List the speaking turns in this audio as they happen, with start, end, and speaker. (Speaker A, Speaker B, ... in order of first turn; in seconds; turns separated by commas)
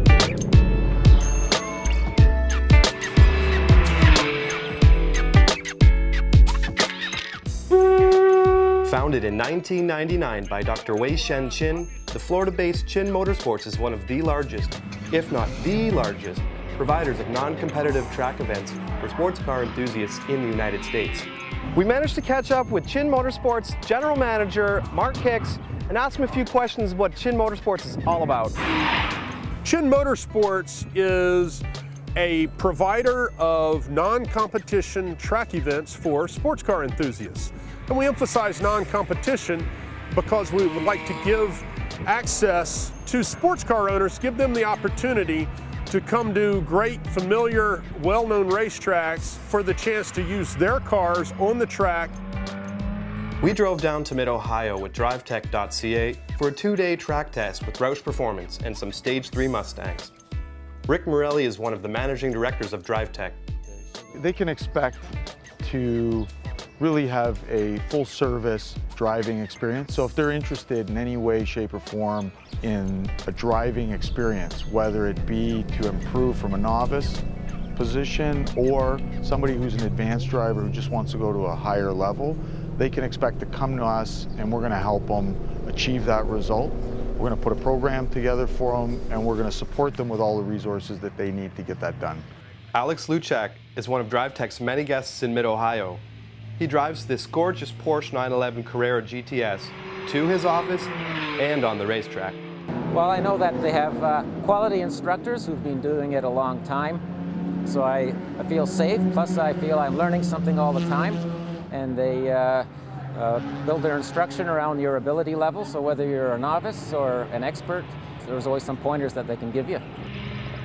Speaker A: 8.8-28.6, Speaker B: 29.6-31.6, Speaker B: 32.1-52.1, Speaker A: 53.4-60.1, Speaker A: 60.9-63.4, Speaker C: 64.1-77.2, Speaker C: 77.7-92.2, Speaker A: 92.7-96.0, Speaker A: 96.6-102.4, Speaker D: 102.9-107.0, Speaker D: 107.6-119.8